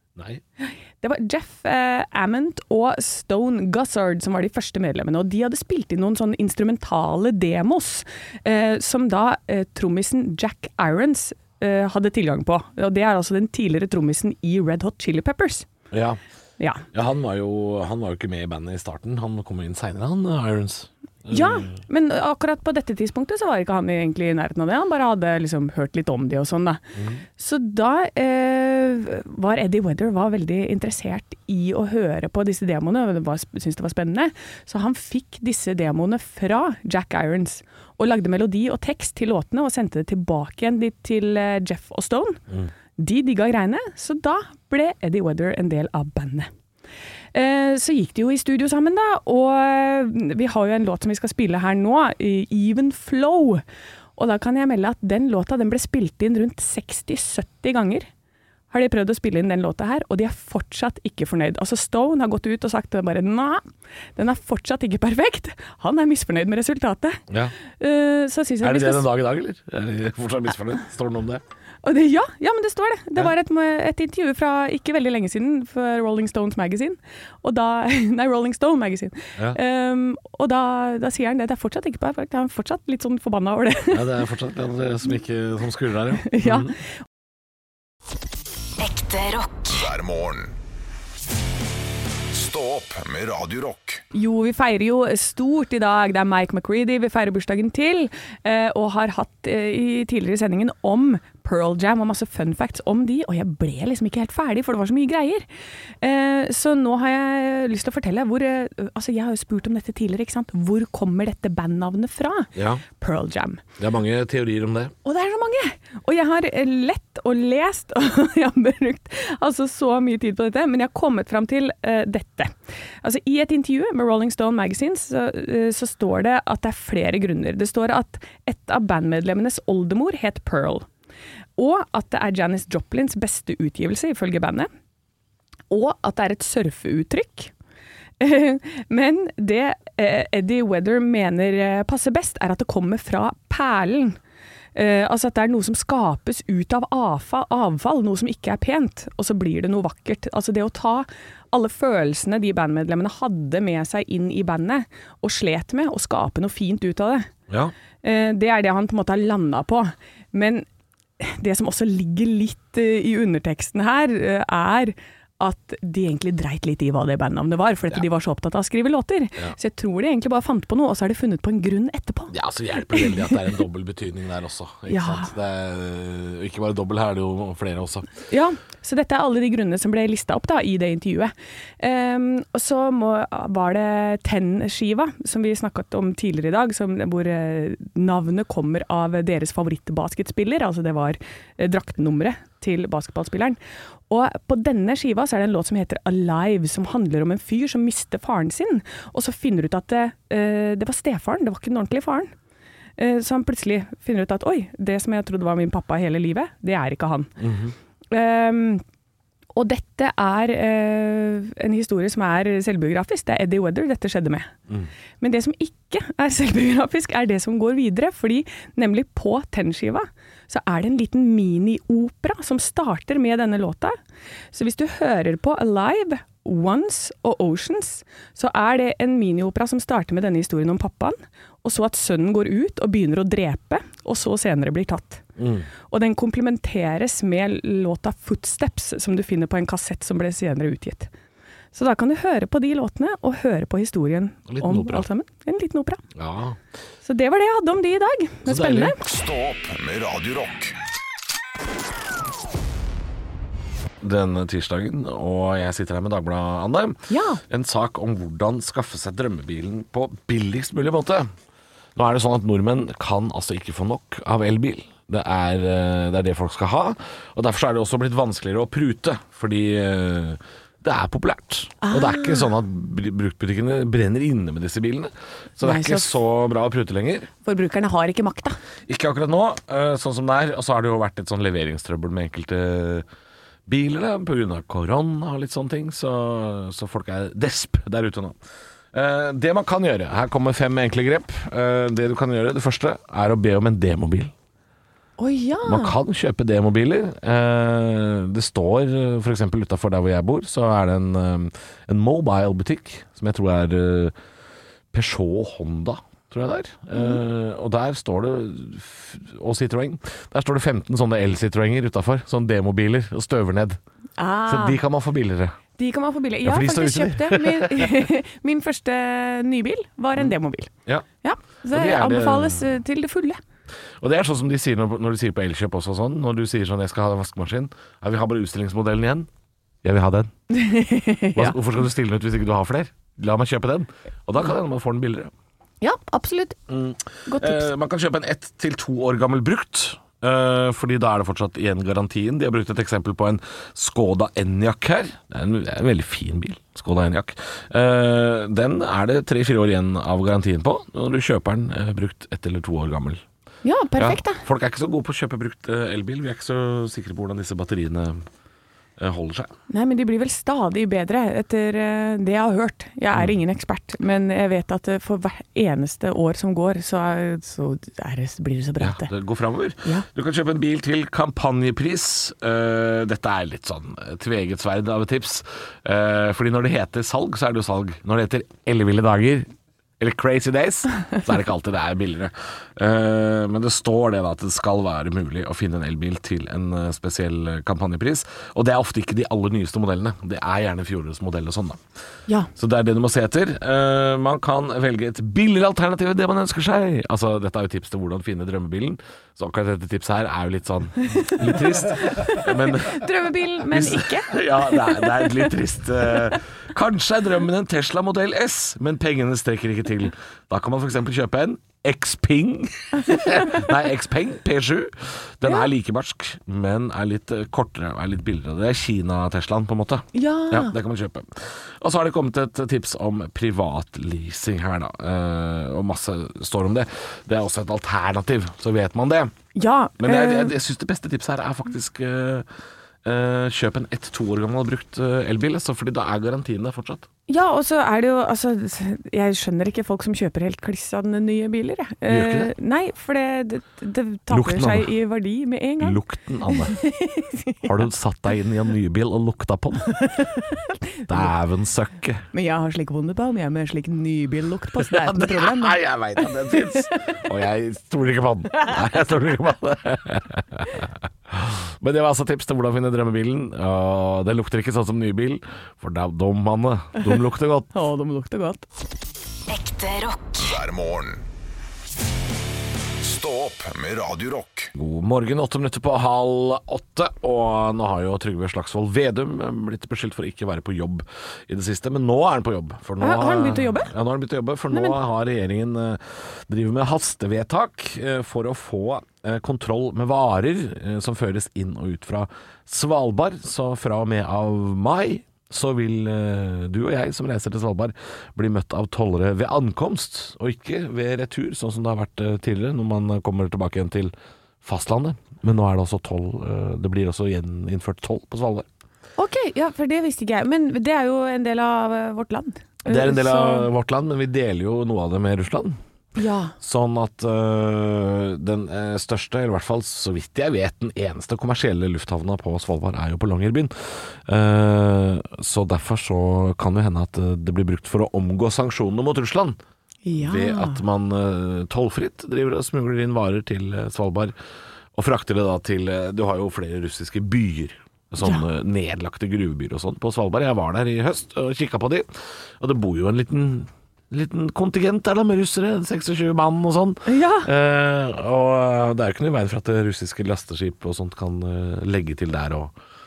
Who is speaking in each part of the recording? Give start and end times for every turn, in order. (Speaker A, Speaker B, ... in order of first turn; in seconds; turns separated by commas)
Speaker A: 0.1-0.4, Speaker B: 0.6-15.7, Speaker A: 15.9-16.2, Speaker B: 16.6-16.9, Speaker A: 16.9-21.8, Speaker B: 21.3-26.8, Speaker A: 26.9-27.2, Speaker B: 27.4-42.4, Speaker B: 43.0-46.5, Speaker B: 47.3-53.6, Speaker B: 54.1-58.1, Speaker B: 58.7-63.6, Speaker B: 64.2-67.2, Speaker B: 67.8-69.1, Speaker A: 68.6-71.4, Speaker B: 71.8-84.1, Speaker A: 83.9-86.7, Speaker B: 86.3-86.8, Speaker C: 88.8-89.7, Speaker D: 89.7-90.5, Speaker D: 92.3-94.0, Speaker B: 94.1-105.5, Speaker B: 106.0-113.6, Speaker A: 112.5-112.8, Speaker A: 113.8-114.9, Speaker B: 115.0-130.8, Speaker B: 131.6-134.7, Speaker B: 135.7-137.5, Speaker B: 138.2-144.2, Speaker B: 144.7-157.3, Speaker A: 157.5-157.7, Speaker B: 158.0-160.7, Speaker B: 161.2-172.3, Speaker A: 172.3-178.1, Speaker B: 172.9-173.4, Speaker B: 174.9-175.3, Speaker B: 178.3-193.6, Speaker B: 194.1-202.3, Speaker B: 203.0-207.3, Speaker A: 207.4-207.7, Speaker B: 208.1-208.8, Speaker B: 209.5-214.5, Speaker B: 215.2-224.0, Speaker B: 224.5-235.2, Speaker A: 235.4-235.7, Speaker B: 235.9-241.1, Speaker B: 241.7-246.0, Speaker A: 244.5-245.1, Speaker A: 246.2-246.6, Speaker B: 247.0-249.0, Speaker A: 248.4-248.9, Speaker D: 249.0-250.7, Speaker A: 254.0-261.3, Speaker B: 257.1-257.4, Speaker A: 261.9-277.3, Speaker B: 271.8-272.5, Speaker B: 275.6-276.2, Speaker B: 277.4-278.6, Speaker A: 278.9-283.0, Speaker A: 283.6-288.4, Speaker A: 288.9-294.3, Speaker B: 295.2-295.9, Speaker A: 295.6-304.1, Speaker A: 304.9-313.8, Speaker B: 314.2-314.8, Speaker A: 314.4-315.5, Speaker B: 315.8-320.7, Speaker A: 316.4-318.1, Speaker B: 321.2-323.4, Speaker A: 321.7-322.6, Speaker A: 324.0-329.3, Speaker A: 329.8-330.3, Speaker B: 330.5-331.6, Speaker A: 331.3-335.3, Speaker B: 335.8-336.6, Speaker A: 336.7-353.2, Speaker B: 337.3-337.7, Speaker B: 353.6-354.4, Speaker A: 354.0-358.2, Speaker A: 359.0-359.5, Speaker B: 359.7-369.1, Speaker A: 368.8-391.8, Speaker A: 392.6-403.1, Speaker B: 401.1-405.5, Speaker A: 403.7-429.3, Speaker B: 413.1-413.5, Speaker B: 420.1-420.8, Speaker B: 429.5-430.5, Speaker A: 430.0-432.4, Speaker A: 433.0-437.1, Speaker B: 437.3-446.0, Speaker A: 442.1-442.5, Speaker A: 444.3-444.9, Speaker A: 445.8-446.8, Speaker B: 446.5-447.6, Speaker A: 447.6-449.9, Speaker B: 450.0-451.3, Speaker A: 451.1-452.2, Speaker B: 452.3-457.0, Speaker A: 454.8-467.7, Speaker B: 467.7-468.6, Speaker C: 469.5-470.4, Speaker D: 470.4-471.2, Speaker D: 473.0-474.7, Speaker A: 474.7-508.7, Speaker B: 483.0-483.9, Speaker B: 484.7-484.9, Speaker B: 509.2-513.7, Speaker A: 512.9-515.8, Speaker B: 516.1-516.5, Speaker A: 516.6-529.6, Speaker B: 530.0-530.8, Speaker A: 530.2-534.3, Speaker A: 534.9-542.1, Speaker A: 542.6-552.7, Speaker B: 547.0-547.5